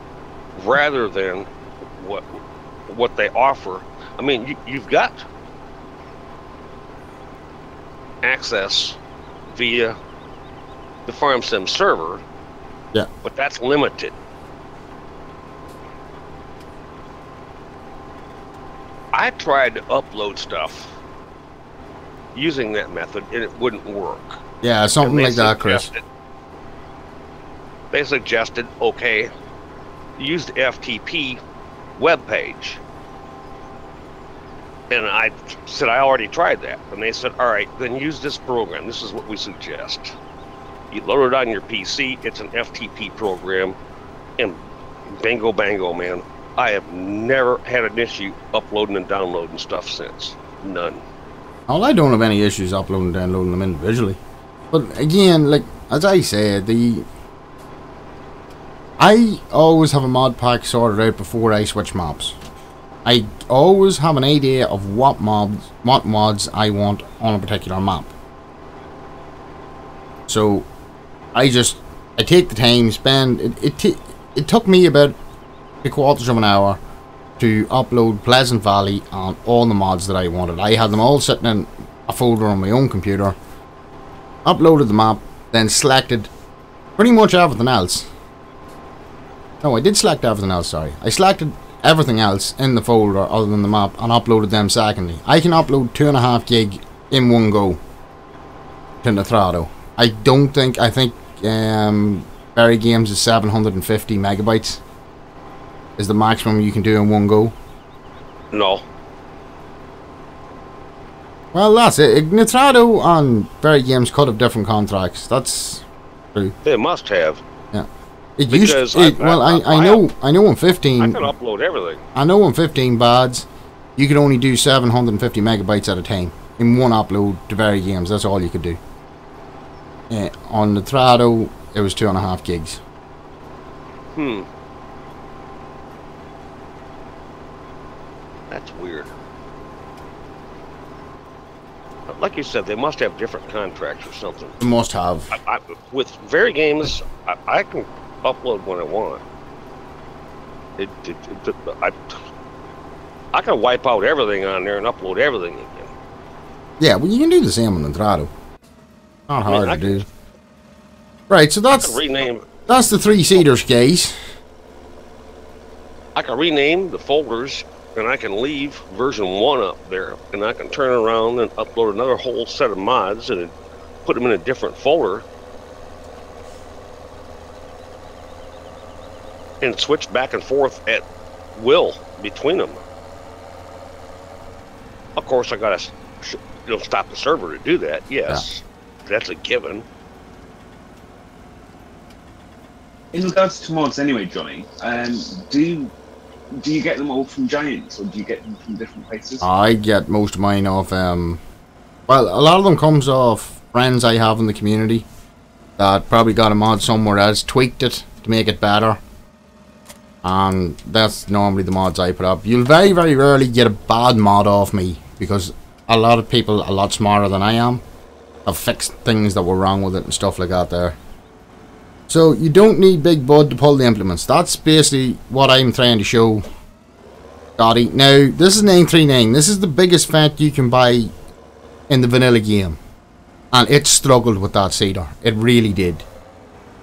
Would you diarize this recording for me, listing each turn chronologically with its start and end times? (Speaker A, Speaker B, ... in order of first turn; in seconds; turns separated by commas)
Speaker A: 0.6-5.2, Speaker A: 8.2-9.0, Speaker A: 9.5-9.9, Speaker A: 11.1-12.2, Speaker A: 13.2-14.2, Speaker A: 19.1-21.0, Speaker A: 22.3-24.4, Speaker B: 24.6-25.9, Speaker A: 25.0-26.0, Speaker A: 27.9-29.3, Speaker A: 30.2-31.4, Speaker A: 32.0-32.8, Speaker A: 34.9-40.1, Speaker A: 40.9-43.8, Speaker A: 44.4-51.0, Speaker B: 51.7-54.2, Speaker B: 54.7-57.1, Speaker B: 59.0-62.4, Speaker B: 63.0-68.1, Speaker B: 70.3-70.7, Speaker B: 71.3-75.2, Speaker B: 75.8-76.8, Speaker B: 77.4-83.4, Speaker B: 84.5-86.3, Speaker B: 87.0-88.1, Speaker B: 89.6-97.8, Speaker B: 99.0-104.8, Speaker B: 106.0-107.5, Speaker A: 108.5-108.8, Speaker B: 111.5-116.5, Speaker A: 116.6-117.4, Speaker B: 117.7-121.3, Speaker A: 118.5-120.0, Speaker A: 121.0-122.0, Speaker B: 122.2-128.8, Speaker B: 130.1-132.8, Speaker A: 134.2-134.5, Speaker A: 138.5-139.1, Speaker A: 142.1-144.6, Speaker B: 144.6-145.4, Speaker A: 145.3-149.2, Speaker A: 150.8-152.2, Speaker A: 153.3-155.9, Speaker B: 156.8-158.3, Speaker B: 159.3-160.1, Speaker A: 159.5-160.1, Speaker B: 161.3-162.0, Speaker A: 161.7-162.5, Speaker B: 162.7-164.2, Speaker A: 166.2-173.5, Speaker A: 174.1-175.2, Speaker A: 179.6-182.8, Speaker A: 185.2-189.8, Speaker C: 193.1-195.9, Speaker C: 196.5-199.5, Speaker B: 199.4-201.4, Speaker B: 202.1-205.1, Speaker B: 205.8-209.0, Speaker B: 210.2-217.8, Speaker B: 218.5-221.0, Speaker B: 222.1-226.4, Speaker B: 227.6-231.1, Speaker B: 231.9-232.8, Speaker B: 233.5-236.1